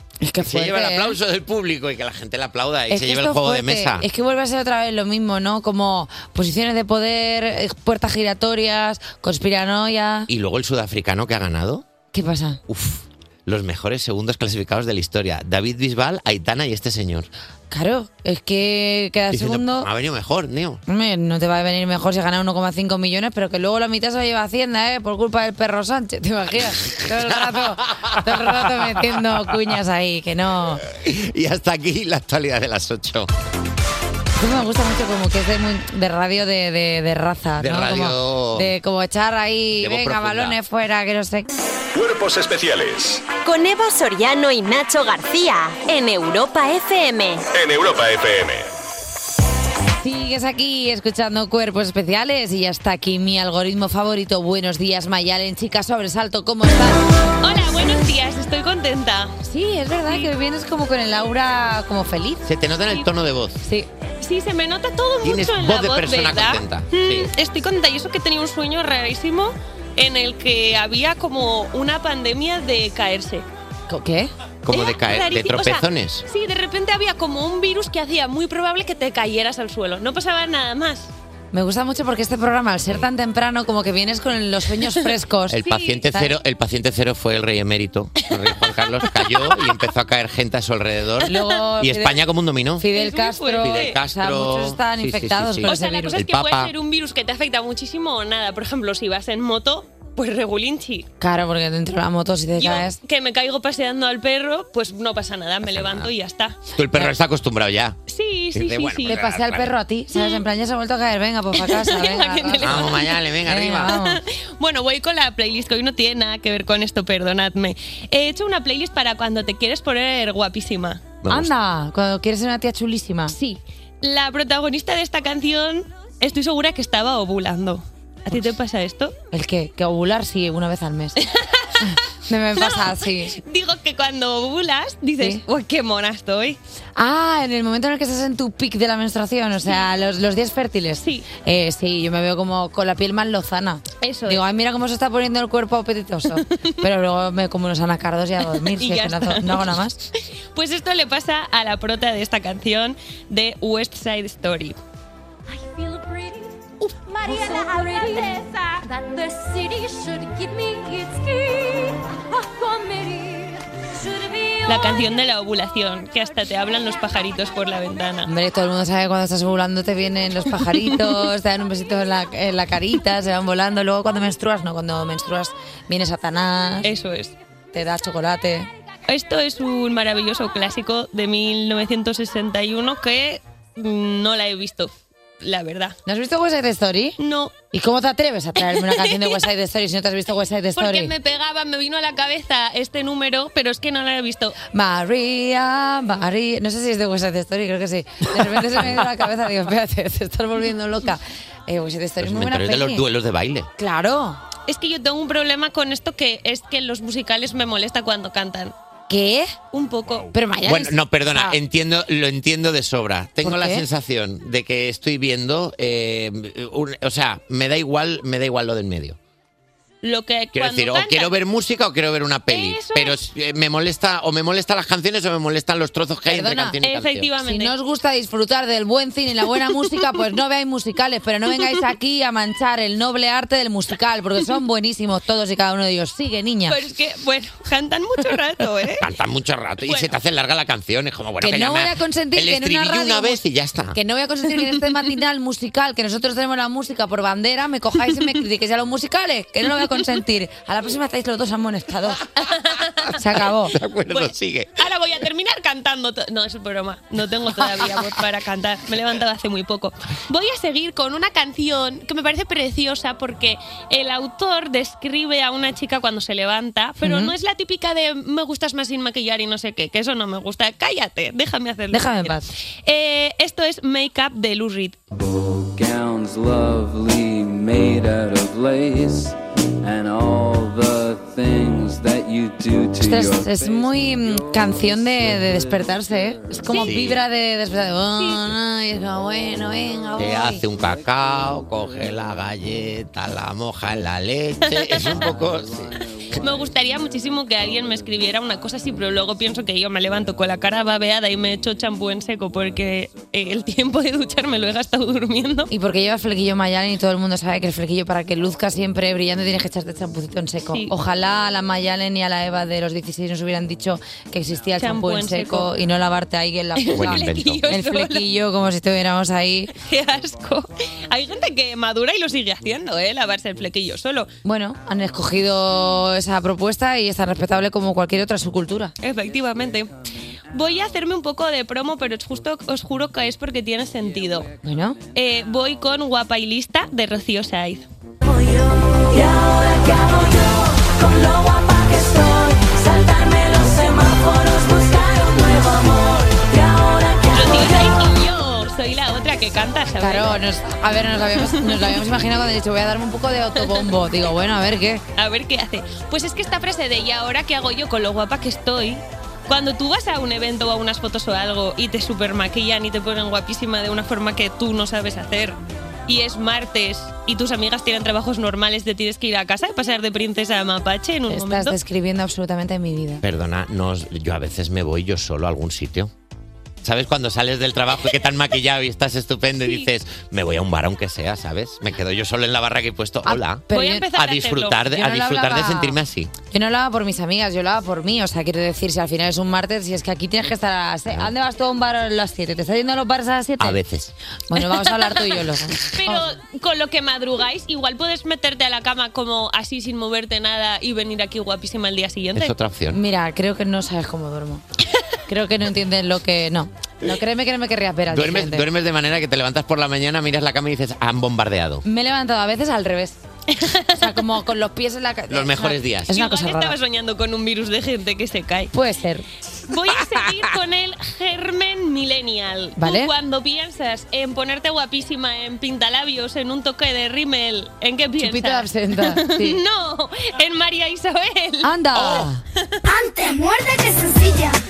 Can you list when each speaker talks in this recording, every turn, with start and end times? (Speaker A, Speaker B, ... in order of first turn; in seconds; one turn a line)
Speaker A: 0.2-1.1
Speaker B: 0.4-4.0
Speaker A: 2.9-10.3
Speaker B: 10.3-11.8
Speaker A: 12.1-12.6
Speaker B: 12.7-17.3
Speaker A: 17.7-19.9
Speaker B: 19.3-20.8
Speaker A: 20.9-30.8
Speaker B: 26.9-28.2
Speaker B: 30.8-33.3
Speaker A: 34.4-41.5
Speaker B: 37.6-38.7
Speaker B: 39.8-40.6
Speaker C: 41.9-43.2
Speaker D: 43.4-47.5
Speaker C: 47.5-48.6
Speaker A: 50.0-57.0
Speaker E: 57.4-59.4
Speaker A: 59.4-62.4
Speaker E: 60.0-60.3
Speaker B: 62.4-63.6
Speaker A: 63.6-63.9
Speaker E: 64.2-73.4
Speaker B: 65.2-67.3
Speaker A: 73.9-74.3
Speaker B: 74.6-76.2
Speaker E: 74.7-81.1
Speaker A: 81.5-86.3
Speaker B: 85.5-92.9
Speaker E: 85.6-86.0
Speaker E: 88.2-89.8
Speaker A: 91.2-92.2
Speaker A: 92.8-96.2
Speaker E: 92.9-94.0
Speaker B: 93.6-96.7
Speaker E: 95.6-101.1
Speaker A: 101.2-103.0
Speaker E: 102.6-106.6
Speaker B: 105.6-106.1
Speaker B: 106.7-108.0
Speaker E: 108.1-109.2
Speaker B: 108.5-109.7
Speaker A: 109.0-114.2
Speaker E: 110.1-110.4
Speaker E: 111.5-113.2
Speaker B: 112.6-114.0
Speaker E: 113.9-121.2
Speaker B: 121.2-121.5
Speaker A: 121.3-123.3
Speaker E: 123.3-129.1
Speaker A: 129.3-131.2
Speaker E: 131.2-132.0
Speaker A: 131.8-133.4
Speaker E: 132.6-136.6
Speaker A: 136.9-150.0
Speaker E: 144.0-144.4
Speaker E: 148.6-149.8
Speaker E: 150.5-154.8
Speaker F: 157.6-158.1
Speaker F: 159.2-161.9
Speaker F: 162.8-163.2
Speaker E: 164.6-168.3
Speaker A: 168.2-176.9
Speaker E: 170.8-171.2
Speaker E: 176.8-177.3
Speaker A: 177.7-178.7
Speaker E: 179.1-185.9
Speaker A: 186.1-187.2
Speaker E: 187.2-187.6
Speaker A: 187.7-191.1
Speaker E: 188.6-189.4
Speaker E: 190.8-194.5
Speaker A: 194.7-203.0
Speaker B: 202.2-203.7
Speaker A: 203.8-204.4
Speaker E: 204.7-208.7
Speaker A: 209.1-209.5
Speaker E: 209.7-210.3
Speaker A: 210.3-211.6
Speaker B: 210.6-219.2
Speaker A: 213.4-213.8
Speaker E: 220.0-221.3
Speaker B: 220.5-227.3
Speaker E: 222.5-223.2
Speaker A: 226.2-226.8
Speaker E: 226.8-227.7
Speaker A: 227.4-236.8
Speaker E: 236.7-239.1
Speaker B: 239.0-244.0
Speaker E: 239.8-240.2
Speaker A: 241.4-243.4
Speaker A: 243.9-252.2
Speaker E: 249.8-250.0
Speaker E: 252.4-253.2
Speaker A: 253.2-253.8
Speaker B: 253.7-254.8
Speaker E: 254.1-275.0
Speaker A: 267.0-267.3
Speaker A: 271.9-272.5
Speaker G: 275.1-286.7
Speaker A: 283.0-290.6
Speaker E: 286.7-286.9
Speaker B: 286.8-287.2
Speaker E: 288.2-288.4
Speaker B: 290.2-296.0
Speaker E: 294.6-295.2
Speaker G: 295.1-297.1
Speaker E: 296.4-305.7
Speaker G: 297.7-298.0
Speaker A: 305.7-319.7
Speaker E: 310.7-310.9
Speaker E: 314.8-315.7
Speaker E: 316.7-318.2
Speaker B: 316.9-317.7
Speaker E: 319.7-324.3
Speaker A: 324.4-328.9
Speaker E: 329.0-329.9
Speaker E: 330.5-334.5
Speaker A: 334.6-335.0
Speaker E: 335.1-337.9
Speaker F: 339.1-340.3
Speaker F: 341.1-347.0
Speaker E: 347.2-350.3
Speaker A: 350.0-355.0
Speaker E: 351.5-352.0
Speaker E: 353.6-353.9
Speaker E: 355.1-371.8
Speaker A: 371.3-373.2
Speaker B: 373.2-376.1
Speaker B: 376.8-386.3
Speaker E: 379.6-379.9
Speaker A: 383.2-384.1
Speaker E: 383.7-384.9
Speaker A: 384.9-386.0
Speaker A: 386.5-393.8
Speaker B: 393.6-394.1
Speaker A: 394.5-396.3
Speaker E: 395.1-395.3
Speaker E: 395.9-402.5
Speaker B: 402.3-403.0
Speaker A: 402.9-404.6
Speaker A: 405.3-408.6
Speaker B: 408.1-411.8
Speaker A: 411.8-413.2
Speaker E: 413.5-414.2
Speaker A: 414.0-416.8
Speaker B: 415.3-416.1
Speaker E: 416.1-418.7
Speaker A: 418.7-419.2
Speaker E: 419.7-432.9
Speaker B: 420.0-420.4
Speaker A: 422.8-423.1
Speaker A: 428.2-429.6
Speaker A: 431.6-432.4
Speaker F: 433.3-434.4